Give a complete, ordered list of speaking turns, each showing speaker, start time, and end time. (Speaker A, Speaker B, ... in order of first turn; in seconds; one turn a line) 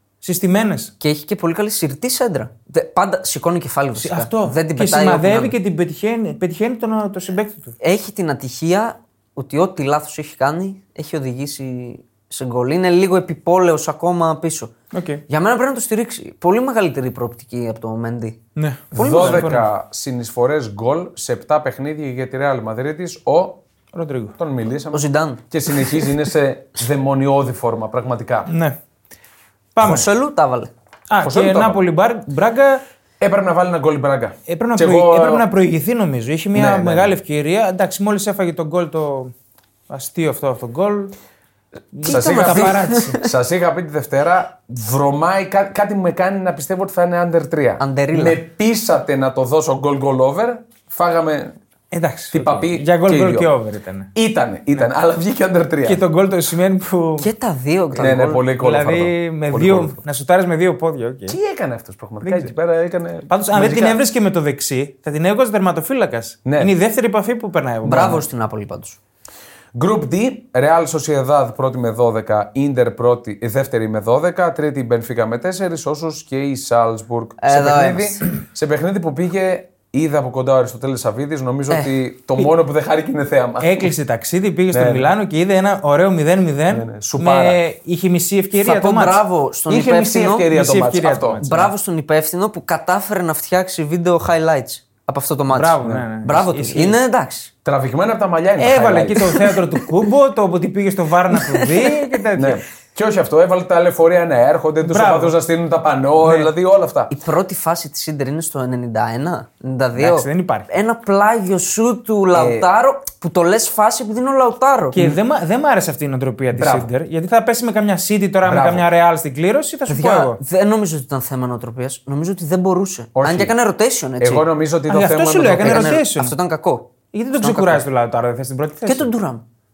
Speaker A: 0.2-0.9
Speaker B: 1.0-5.5
Speaker A: 4.0-7.8
Speaker B: 7.8-14.7
Speaker A: 14.9-15.2
Speaker B: 15.3-18.4
Speaker A: 18.6-19.7
Speaker B: 18.9-19.5
Speaker C: 18.9-23.6
Speaker A: 23.9-24.3
Speaker C: 24.4-28.5
Speaker B: 24.9-26.1
Speaker A: 28.5-28.8
Speaker A: 29.7-30.1
Speaker B: 29.8-30.7
Speaker A: 31.1-32.8
Speaker C: 31.2-31.8
Speaker C: 33.2-35.5
Speaker A: 34.5-39.3
Speaker C: 36.5-37.1
Speaker A: 39.9-41.1
Speaker A: 41.9-43.2
Speaker C: 42.0-51.5
Speaker B: 42.0-43.3
Speaker B: 47.8-48.4
Speaker A: 51.9-54.1
Speaker C: 52.3-53.5
Speaker C: 54.1-56.0
Speaker A: 55.8-57.3
Speaker B: 57.2-58.4
Speaker C: 58.0-60.0
Speaker A: 58.6-61.4
Speaker C: 61.3-64.0
Speaker A: 62.2-62.5
Speaker A: 63.3-68.2
Speaker C: 66.5-66.7
Speaker B: 67.8-69.0
Speaker C: 69.7-83.9
Speaker B: 77.4-78.2
Speaker A: 83.6-89.2
Speaker C: 84.7-85.1
Speaker C: 86.7-87.6
Speaker B: 88.6-90.5
Speaker C: 89.7-91.4
Speaker A: 90.5-91.7
Speaker B: 91.4-97.5
Speaker A: 95.5-97.0
Speaker C: 97.6-99.4
Speaker A: 98.6-102.6
Speaker B: 99.4-99.8
Speaker B: 101.3-101.9
Speaker C: 102.3-107.1
Speaker A: 104.8-105.3
Speaker A: 106.2-106.5
Speaker B: 107.1-115.0
Speaker A: 110.0-110.7
Speaker C: 112.3-112.7
Speaker A: 114.9-120.4
Speaker C: 116.5-116.9
Speaker C: 118.4-118.9
Speaker B: 119.9-124.5
Speaker C: 123.1-123.5
Speaker C: 124.2-126.0
Speaker A: 124.9-126.3
Speaker B: 125.6-127.8
Speaker A: 127.1-129.1
Speaker B: 128.8-129.4